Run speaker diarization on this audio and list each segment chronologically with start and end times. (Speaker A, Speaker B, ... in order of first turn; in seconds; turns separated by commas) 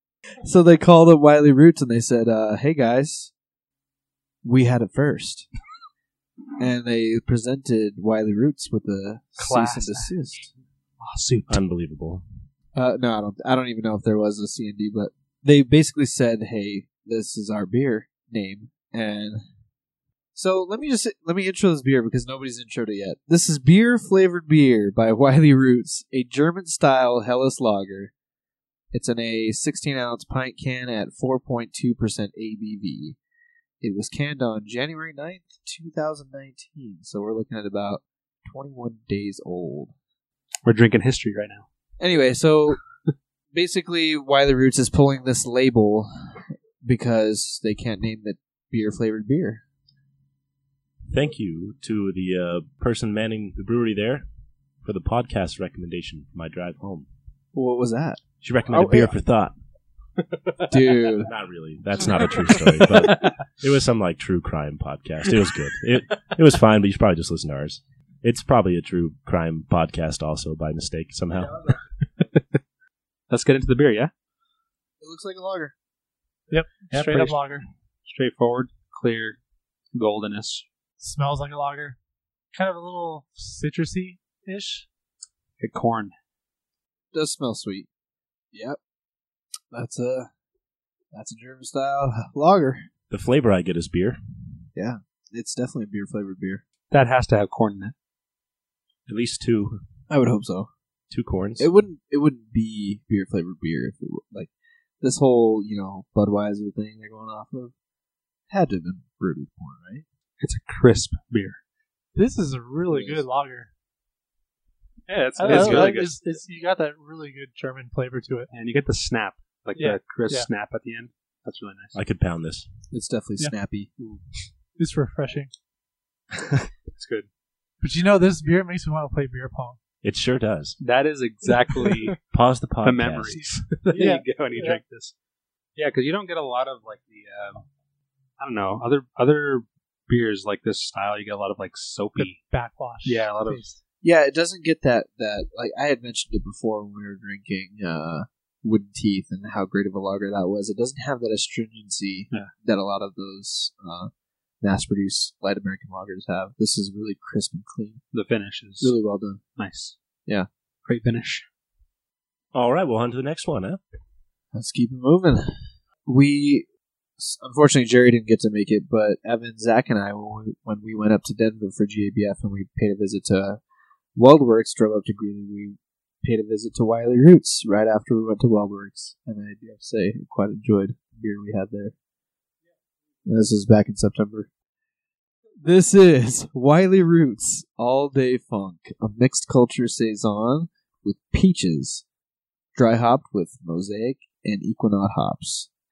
Speaker A: 0.4-3.3, Speaker A: 4.4-5.5, Speaker A: 6.6-10.5, Speaker B: 9.4-10.1, Speaker B: 11.0-11.6, Speaker C: 11.5-12.2, Speaker A: 12.7-19.4, Speaker A: 20.3-28.1, Speaker A: 28.9-33.2, Speaker A: 33.8-39.9, Speaker B: 40.6-41.6, Speaker A: 42.0-42.8, Speaker A: 43.5-49.6, Speaker C: 51.1-54.2, Speaker C: 54.8-57.0, Speaker A: 57.5-59.1, Speaker C: 58.4-59.5, Speaker A: 60.7-61.3, Speaker C: 61.2-71.7, Speaker B: 62.3-63.4, Speaker B: 73.3-74.1, Speaker A: 75.0-75.7, Speaker D: 76.5-77.6, Speaker B: 76.9-77.4, Speaker B: 78.0-79.4, Speaker B: 79.9-80.6, Speaker D: 81.0-82.0, Speaker D: 82.5-84.8, Speaker B: 85.6-86.1, Speaker A: 87.1-87.9, Speaker A: 88.5-88.8, Speaker A: 89.7-90.3, Speaker A: 91.1-92.9, Speaker C: 93.1-94.2, Speaker A: 94.7-96.6, Speaker B: 96.9-97.9, Speaker C: 99.1-99.8, Speaker A: 100.1-100.7, Speaker C: 101.1-101.7, Speaker A: 101.6-107.7, Speaker A: 108.5-110.0, Speaker B: 110.4-111.6, Speaker D: 112.1-113.7, Speaker A: 112.9-113.2, Speaker B: 115.1-116.1, Speaker D: 115.4-118.5, Speaker C: 115.5-115.9, Speaker B: 118.5-122.0, Speaker D: 119.8-120.5, Speaker C: 121.9-122.7, Speaker A: 122.9-123.9, Speaker B: 124.0-124.2, Speaker D: 124.8-125.5, Speaker B: 126.9-127.3, Speaker D: 127.8-129.8, Speaker C: 130.0-130.8, Speaker B: 130.8-132.2, Speaker C: 132.3-133.4, Speaker B: 132.8-135.1, Speaker D: 133.3-134.8, Speaker B: 135.8-137.6, Speaker B: 138.4-142.4, Speaker D: 142.2-143.8, Speaker B: 143.0-143.6, Speaker A: 144.0-154.1, Speaker A: 154.6-158.0, Speaker B: 158.1-158.9, Speaker A: 158.8-159.4, Speaker B: 159.6-159.9, Speaker B: 160.8-161.4, Speaker C: 162.5-163.8, Speaker A: 164.5-165.5, Speaker A: 166.1-166.7, Speaker A: 167.2-173.6, Speaker A: 174.1-181.9, Speaker A: 183.2-184.5, Speaker A: 185.6-192.0, Speaker A: 192.7-195.7